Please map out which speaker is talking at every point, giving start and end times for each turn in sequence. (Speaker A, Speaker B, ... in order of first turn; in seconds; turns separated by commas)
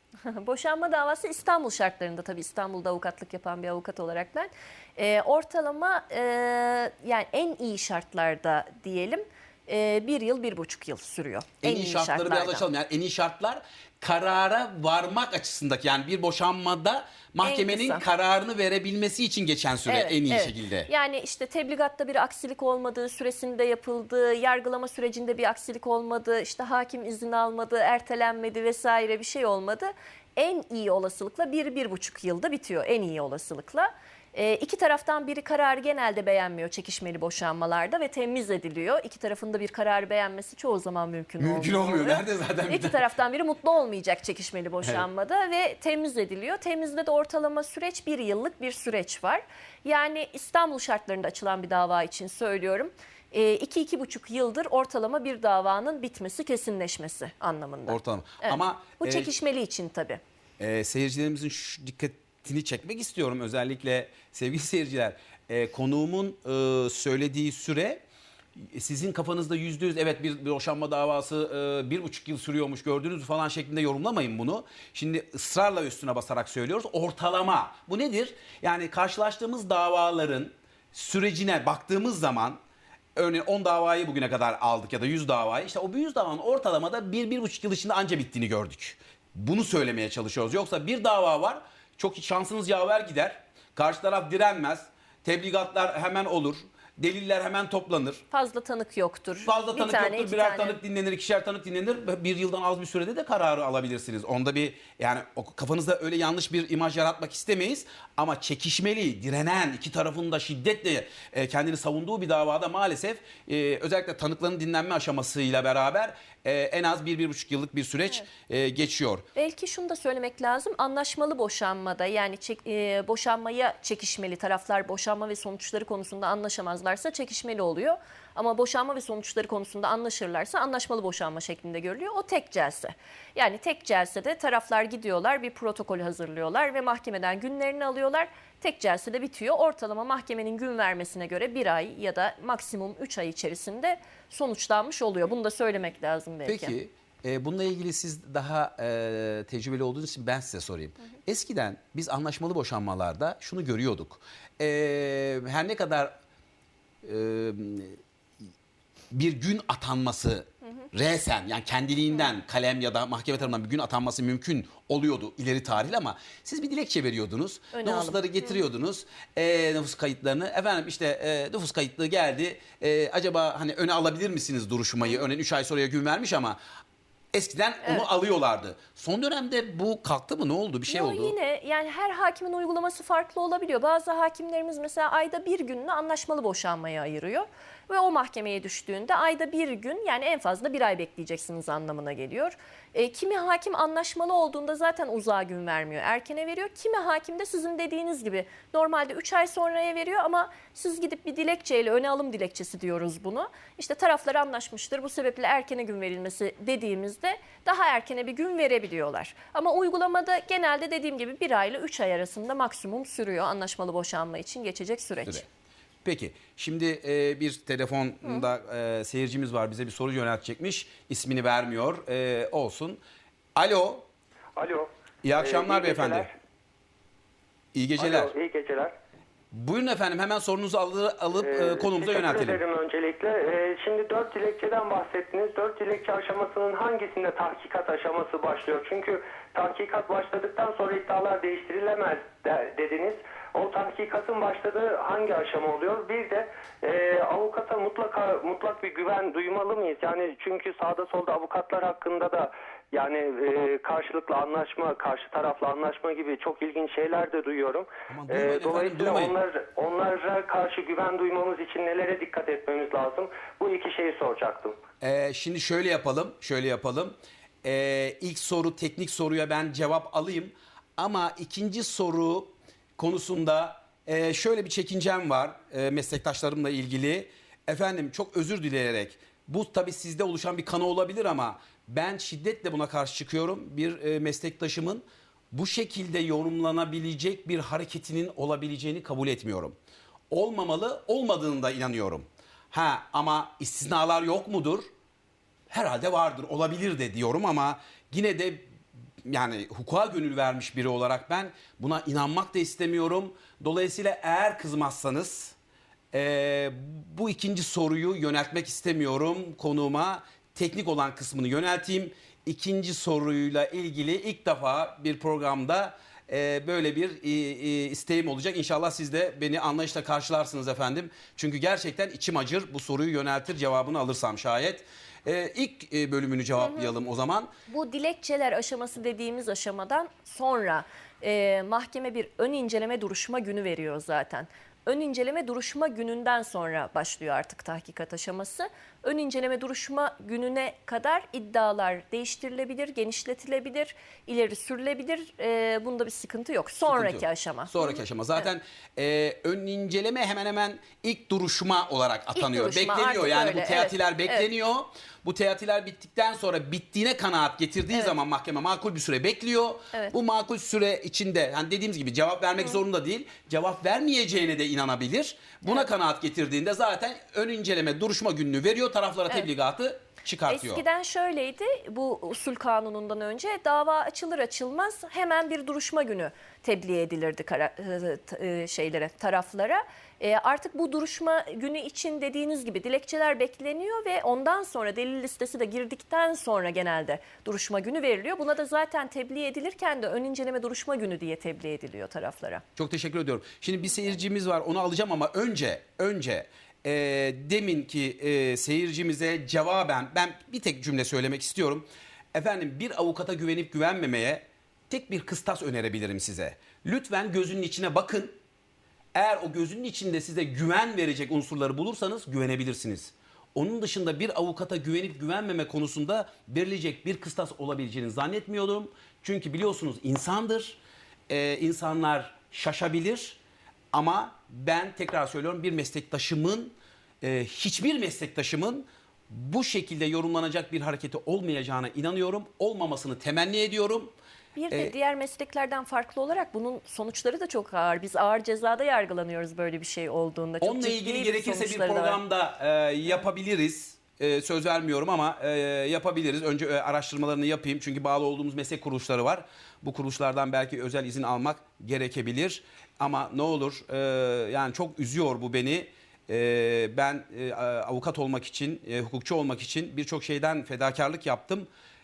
Speaker A: 0.2-12.7, Speaker B: 11.6-20.9, Speaker A: 17.4-18.0, Speaker A: 19.9-60.2, Speaker B: 41.4-43.0, Speaker B: 57.9-59.3, Speaker B: 60.6-68.0, Speaker B: 68.6-82.6, Speaker B: 83.2-98.2, Speaker A: 98.3-100.8, Speaker B: 99.5-119.2, Speaker A: 119.3-146.8, Speaker B: 146.4-156.1, Speaker B: 157.0-158.0, Speaker B: 159.1-176.6, Speaker A: 167.7-168.6, Speaker B: 177.3-181.3, Speaker A: 180.9-215.4, Speaker B: 216.0-223.0, Speaker B: 223.5-224.1, Speaker C: 224.6-226.3, Speaker B: 225.2-226.3, Speaker B: 227.7-228.3, Speaker C: 228.0-228.9, Speaker B: 229.5-232.6, Speaker C: 231.4-264.8, Speaker B: 258.1-259.3, Speaker B: 265.0-289.8, Speaker B: 290.3-294.9, Speaker B: 295.7-298.7, Speaker B: 299.2-305.6, Speaker B: 306.1-327.5, Speaker A: 327.7-348.0, Speaker B: 346.9-370.8, Speaker A: 352.4-354.4, Speaker A: 370.5-392.6, Speaker B: 392.8-408.3, Speaker B: 409.1-423.4, Speaker B: 423.9-434.1, Speaker A: 434.6-442.2, Speaker B: 440.6-461.7